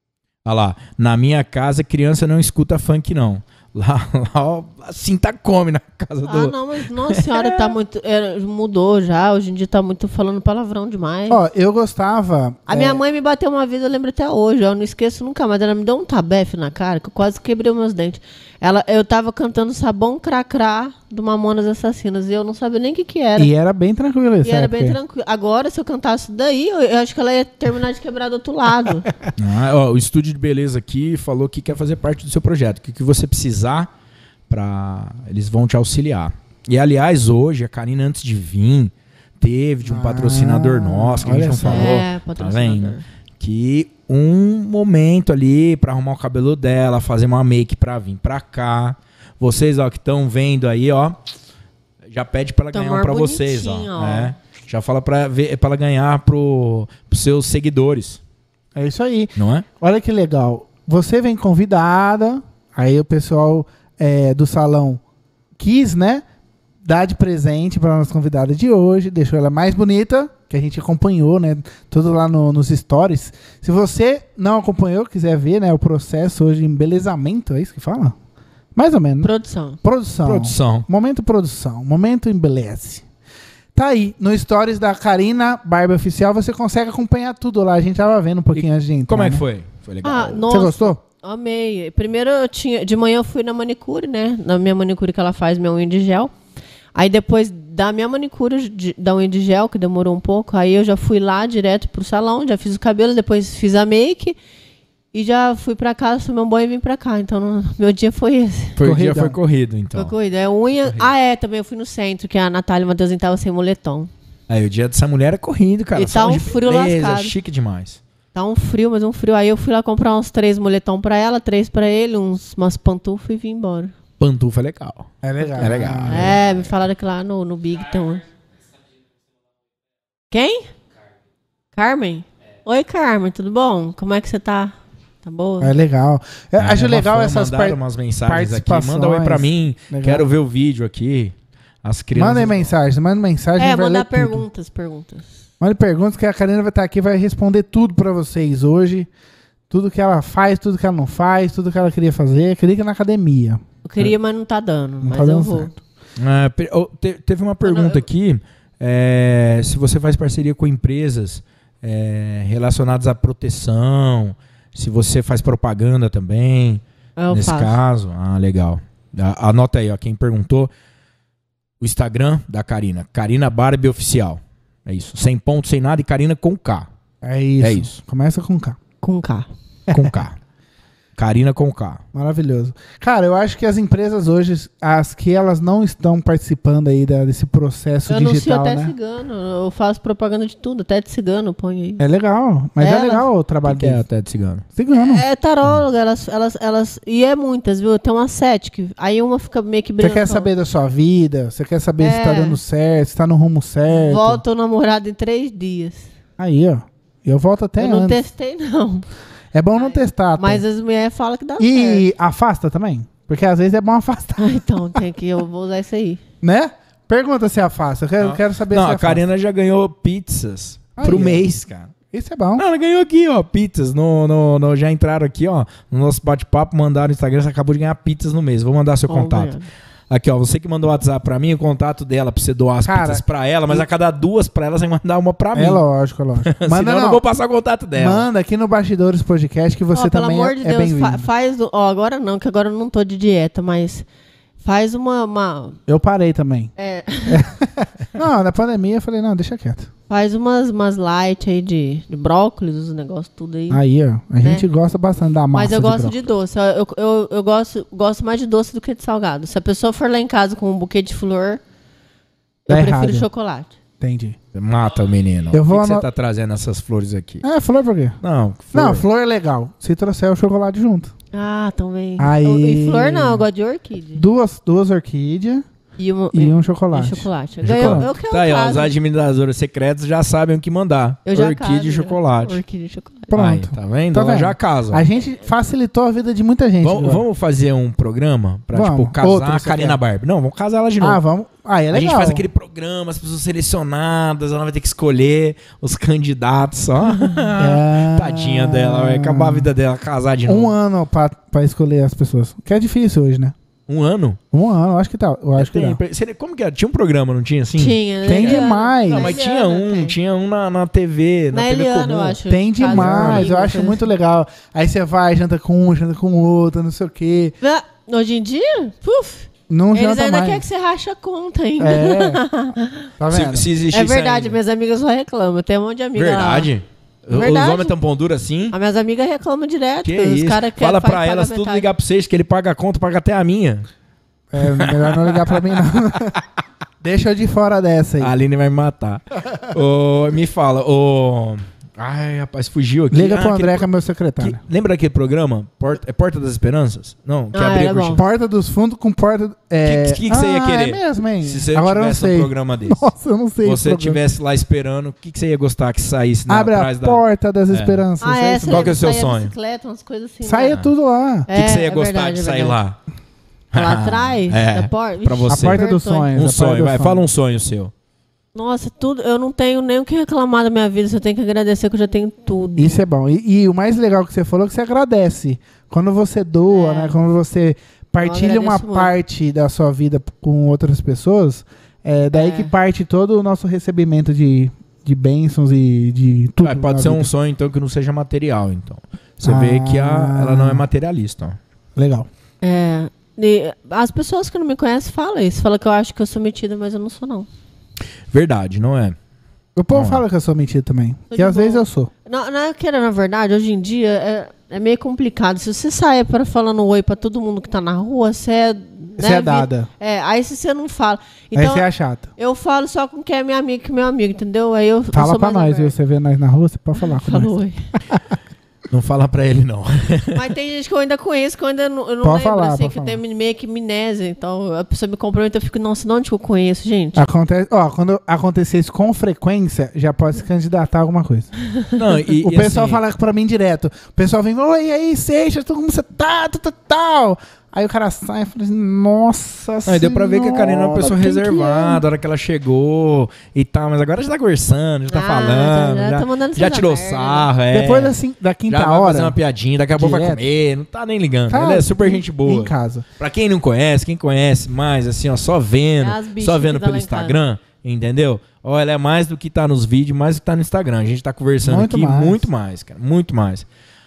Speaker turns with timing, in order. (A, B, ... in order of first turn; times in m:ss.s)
0:00.4-0:07.7 A
0:06.2-0:11.4 B
0:11.3-0:13.0 C
0:12.7-0:23.5 B
0:23.4-0:25.0 C
0:24.4-0:29.1 B
0:29.4-0:33.9 A
0:34.5-0:51.2 A
0:39.8-0:42.0 C
0:41.6-0:43.0 B
0:52.1-0:58.2 A
0:52.7-0:54.3 B
0:58.7-1:05.0 C
0:59.4-0:59.6 A
1:05.6-1:06.2 C
1:06.8-1:18.2 C
1:18.7-1:19.3 C
1:19.2-1:19.8 B
1:19.8-1:23.0 C
1:20.2-1:20.8 A
1:23.7-1:29.4 C
1:28.5-1:30.4 A
1:30.0-1:36.3 B
1:30.5-1:31.0 C
1:36.9-1:44.4 B
1:45.1-1:48.8 B
1:48.8-1:50.1 A
1:48.8-1:49.4 C
1:49.9-1:54.1 B
1:54.5-1:58.0 A
1:55.9-1:57.3 B
1:58.3-2:03.9 B
2:04.2-2:06.5 A
2:05.2-2:06.4 C
2:06.1-2:08.2 B
2:10.3-2:10.7 B
2:11.7-2:15.7 B
2:15.6-2:20.3 C
2:16.6-2:22.7 A
2:22.1-2:24.4 C
2:23.6-2:25.2 B
2:25.6-2:29.1 C
2:29.7-2:33.6 C
2:33.8-2:35.7 B
2:35.0-2:35.8 C
2:36.2-2:50.7 A
2:37.6-2:38.0 B
2:47.2-2:47.8 B
2:51.8-2:56.9 A
2:57.2-2:58.8 C
2:57.6-2:57.9 A
2:59.0-2:59.5 B
2:59.9-3:00.2 C
2:59.9-3:00.4 A
3:01.2-3:02.0 A
3:02.1-3:08.9 C
3:08.1-3:12.0 B
3:12.0-3:14.0 C
3:12.8-3:13.3 B
3:13.6-3:14.6 A
3:14.8-3:15.2 C
3:14.9-3:20.5 B
3:20.0-3:24.4 C
3:22.0-3:22.6 B
3:23.9-3:26.1 B
3:26.4-3:28.2 C
3:27.8-3:29.0 B
3:29.5-3:30.6 C
3:29.7-3:32.0 B
3:31.6-3:35.0 C
3:34.4-3:36.2 B
3:36.4-3:39.2 C
3:38.2-3:41.9 A
3:41.0-3:41.5 C
3:42.1-3:42.6 C
3:42.6-3:49.5 A
3:49.1-3:49.7 B
3:50.1-3:55.8 A
3:52.8-3:53.8 C
3:55.5-3:57.2 C
3:56.4-3:58.3 A
3:58.0-4:01.3 C
3:59.9-4:04.0 B
4:04.6-4:05.8 B
4:05.9-4:06.7 C
4:06.8-4:07.5 B
4:07.3-4:09.9 C
4:10.1-4:13.8 B
4:13.7-4:16.2 C
4:15.5-4:21.6 B
4:22.6-4:23.7 B
4:22.7-4:23.3 C
4:24.0-4:24.4 C
4:24.5-4:27.4 A
4:25.5-4:26.1 C
4:27.4-4:28.2 C
4:28.2-4:29.0 A
4:28.7-4:31.1 C
4:31.3-4:34.2 B
4:32.2-4:33.4 C
4:34.1-4:35.6 C
4:36.0-4:38.9 B
4:36.3-4:38.1 C
4:37.6-4:42.6 A
4:41.2-4:43.3 B
4:43.3-4:47.2 C
4:43.3-4:45.0 A
4:46.8-4:51.2 A
4:48.7-4:50.0 C
4:51.0-4:52.5 C
4:51.9-5:00.7 A
4:57.6-4:59.7 C
5:00.4-5:03.5 C
5:03.9-5:04.4 A
5:04.5-5:06.0 C
5:05.6-5:13.5 A
5:07.8-5:10.1 B
5:08.2-5:09.4 C
5:11.5-5:14.0 B
5:12.5-5:17.6 C
5:17.6-5:23.1 B
5:19.7-5:20.6 C
5:21.8-5:22.4 C
5:23.2-5:23.7 C
5:23.3-5:24.6 A
5:23.9-5:26.7 B
5:26.2-5:28.7 A
5:27.3-5:27.9 B
5:28.7-5:31.9 B
5:30.0-5:33.8 A
5:34.5-5:36.4 C
5:34.6-5:35.9 A
5:37.0-5:38.3 C
5:38.2-5:43.8 A
5:43.1-5:44.6 C
5:44.4-5:48.2 A
5:47.5-5:48.2 B
5:48.1-5:54.2 C
5:49.8-5:53.1 A
5:53.6-5:58.0 A
5:56.5-5:59.0 C
5:58.2-6:00.8 B
5:58.6-5:59.5 A
6:00.4-6:01.5 C
6:01.5-6:02.8 B
6:01.5-6:03.0 A
6:03.7-6:07.9 A
6:03.7-6:06.3 B
6:05.5-6:07.2 C
6:08.5-6:13.0 B
6:12.8-6:27.3 C
6:16.7-6:17.2 B
6:18.2-6:19.1 B
6:22.3-6:22.7 B
6:26.6-6:31.6 A
6:29.4-6:30.8 C
6:32.0-6:32.3 C
6:32.6-6:37.5 B
6:38.3-6:39.2 A
6:39.8-6:42.1 C
6:39.9-6:40.2 A
6:41.3-6:55.9 B
6:49.2-6:49.9 C
6:51.5-6:52.3 C
6:55.1-6:57.5 C
6:57.0-6:57.9 B
6:58.9-7:00.5 A
7:00.3-7:07.2 B
7:02.2-7:03.2 C
7:07.1-7:11.5 C
7:12.0-7:13.0 A
7:12.4-7:22.0 C
7:19.8-7:28.2 A
7:25.1-7:27.5 B
7:27.7-7:29.4 C
7:28.7-7:43.6 A
7:30.0-7:30.4 C
7:31.5-7:33.0 C
7:36.0-7:37.4 B
7:41.6-7:42.5 C